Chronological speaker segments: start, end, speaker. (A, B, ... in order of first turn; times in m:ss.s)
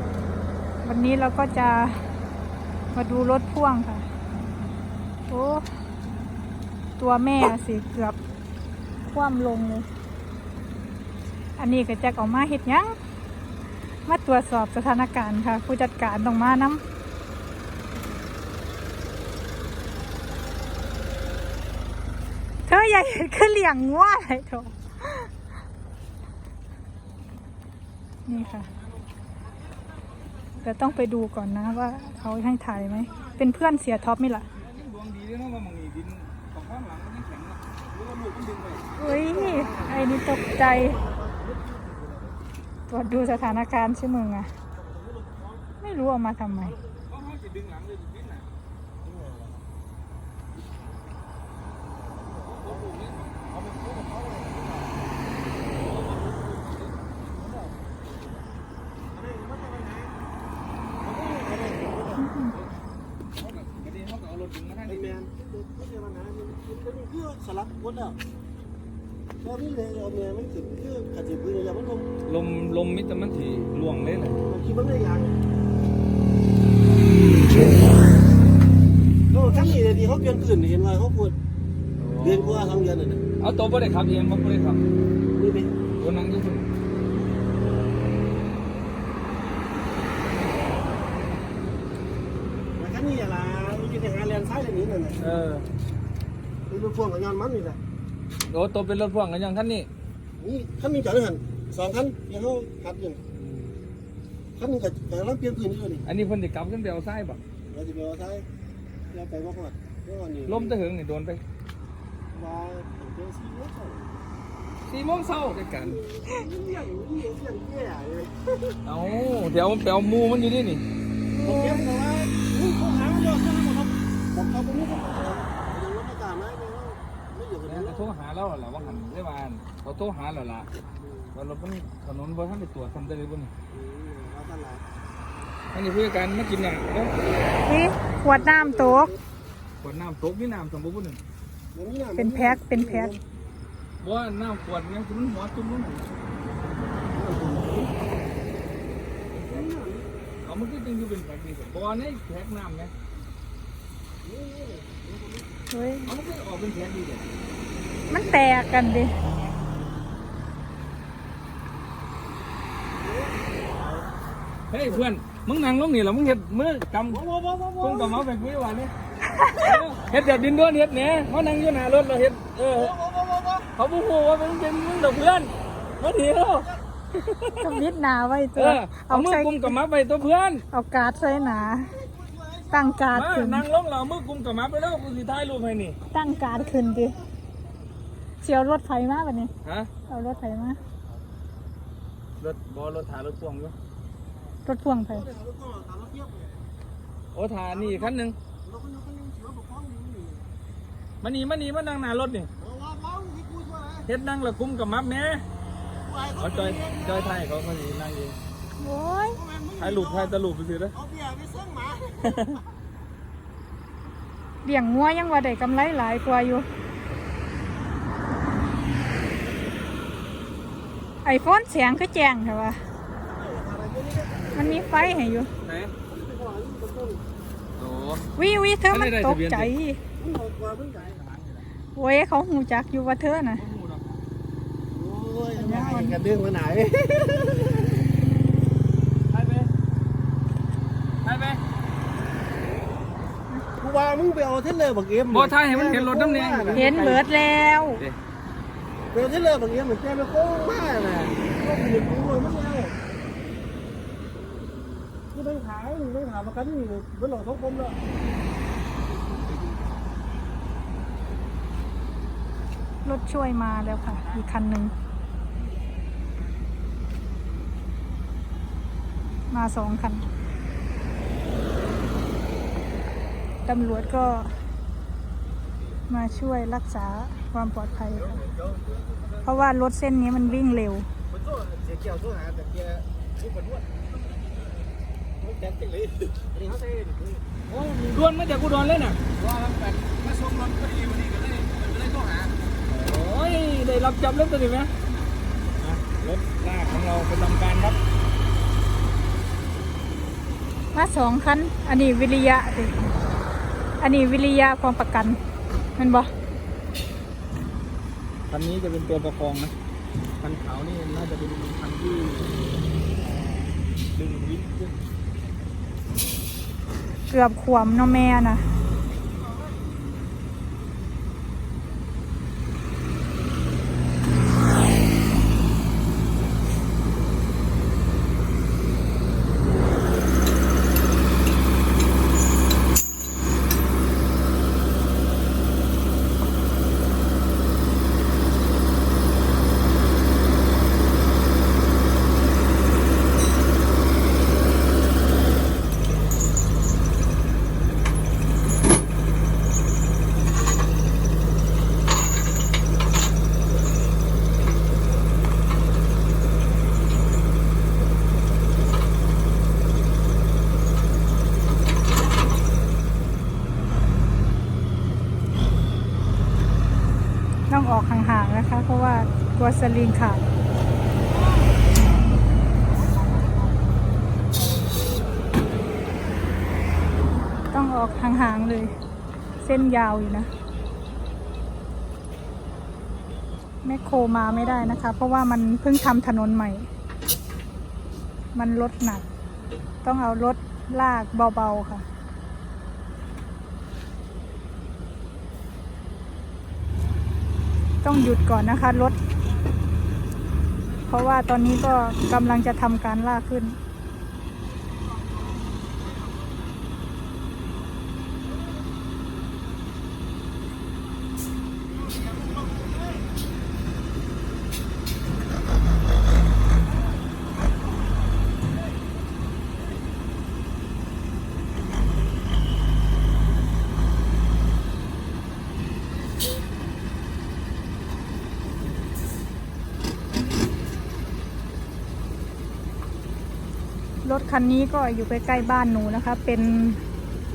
0:00.8-0:02.0 A
0:02.9-0:04.0 A
0:05.3-0:05.6 A
0:07.0-0:08.2 A
0:09.1-0:09.9 A
0:11.6-0:12.9 A
0:14.0-0:16.8 A
0:22.6-0:25.3 A
0:28.2-0:28.7 A
0:30.6-0:34.5 A
0:34.6-0:38.9 B
0:39.0-0:41.0 A
0:39.0-0:40.2 C
0:40.7-0:42.4 C
0:42.9-0:44.5 A
0:44.8-0:45.6 C
0:45.8-0:46.8 A
0:47.1-0:48.5 B
0:49.0-0:49.6 C
0:52.4-0:53.5 B
0:53.6-0:54.9 C
0:55.8-0:57.0 B
0:59.1-1:00.1 C
1:01.0-1:02.3 C
1:02.2-1:02.5 A
1:03.3-1:05.2 B
1:04.9-1:08.2 C
1:09.4-1:12.1 C
1:12.2-1:14.4 B
1:14.4-1:15.4 C
1:19.3-1:21.3 C
1:22.0-1:24.8 B
1:22.2-1:23.2 C
1:25.3-1:25.7 C
1:26.0-1:26.6 B
1:32.8-1:35.2 C
1:35.2-1:35.7 B
1:36.7-1:37.8 C
1:38.5-1:39.9 B
1:40.4-1:43.3 C
1:44.6-1:46.0 C
1:46.0-1:47.4 B
1:47.7-1:48.4 C
1:49.1-1:50.7 C
1:50.4-1:51.4 B
1:52.3-1:54.2 C
1:54.9-1:56.0 B
1:55.8-1:58.8 C
1:58.8-2:00.8 B
2:01.4-2:01.9 A
2:01.4-2:08.0 C
2:07.6-2:10.7 B
2:11.3-2:13.5 B
2:13.7-2:14.8 C
2:15.7-2:17.1 B
2:17.6-2:19.1 A
2:18.6-2:19.2 C
2:19.8-2:21.2 B
2:21.7-2:23.2 C
2:22.2-2:23.2 A
2:24.0-2:26.1 B
2:27.1-2:27.9 C
2:29.4-2:29.7 B
2:29.5-2:30.1 C
2:30.4-2:32.9 B
2:34.2-2:35.5 C
2:35.7-2:36.1 A
2:36.0-2:37.3 B
2:38.1-2:39.1 A
2:43.0-2:44.0 C
2:44.7-2:47.2 B
2:47.1-2:48.3 C
2:47.8-2:48.9 B
2:49.3-2:49.7 A
2:49.5-2:53.0 B
2:52.7-2:53.7 C
2:53.8-2:57.8 B
2:57.6-2:59.8 A
2:58.6-3:00.6 B
3:00.7-3:01.9 A
3:01.6-3:03.0 C
3:02.7-3:03.6 A
3:03.1-3:06.0 B
3:06.1-3:07.2 A
3:08.4-3:09.5 A
3:09.6-3:09.9 B
3:10.1-3:10.8 A
3:12.4-3:13.7 B
3:14.6-3:15.2 A
3:15.1-3:16.6 C
3:17.3-3:18.4 B
3:17.8-3:18.1 C
3:18.6-3:20.5 C
3:21.2-3:22.5 B
3:22.6-3:24.1 C
3:24.1-3:25.4 B
3:26.0-3:27.4 C
3:26.4-3:28.4 B
3:28.8-3:29.4 A
3:29.4-3:30.3 C
3:29.8-3:30.9 B
3:30.9-3:32.5 C
3:32.2-3:32.6 B
3:34.6-3:36.6 A
3:41.2-3:42.8 A
3:43.3-3:45.0 C
3:44.5-3:45.5 A
3:45.6-3:45.9 B
3:46.1-3:47.2 C
3:47.8-3:48.3 B
3:48.4-3:50.0 A
3:48.9-3:49.7 B
3:50.2-3:51.1 C
3:50.9-3:51.7 B
3:51.9-3:53.6 A
3:53.6-3:54.2 B
3:54.9-3:58.0 C
3:55.5-3:56.2 A
3:59.3-3:59.7 B
4:01.2-4:01.6 B
4:03.8-4:06.9 C
4:05.3-4:07.3 B
4:06.7-4:08.0 A
4:09.1-4:12.9 C
4:15.2-4:18.0 C
4:23.0-4:24.9 A
4:29.5-4:30.2 A
4:33.6-4:34.5 A
4:36.1-4:38.4 A
4:38.2-4:39.2 C
4:39.4-4:41.1 A
4:41.3-4:43.9 C
4:45.4-4:47.4 C
4:47.7-4:49.2 B
4:49.4-4:52.6 C
4:52.9-4:54.9 B
4:55.8-4:58.0 B
5:00.9-5:02.9 A
5:04.0-5:05.4 A
5:06.0-5:06.3 A
5:08.5-5:09.7 B
5:10.4-5:12.5 B
5:13.2-5:14.9 B
5:17.3-5:18.6 A
6:07.7-6:10.4 A
6:17.7-6:18.9 A
6:19.6-6:20.5 A
6:23.8-6:26.9 A
6:28.5-6:29.2 A
6:30.0-6:32.0 A
6:38.0-6:39.2 A
6:41.1-6:43.8 A
7:14.2-7:17.0 A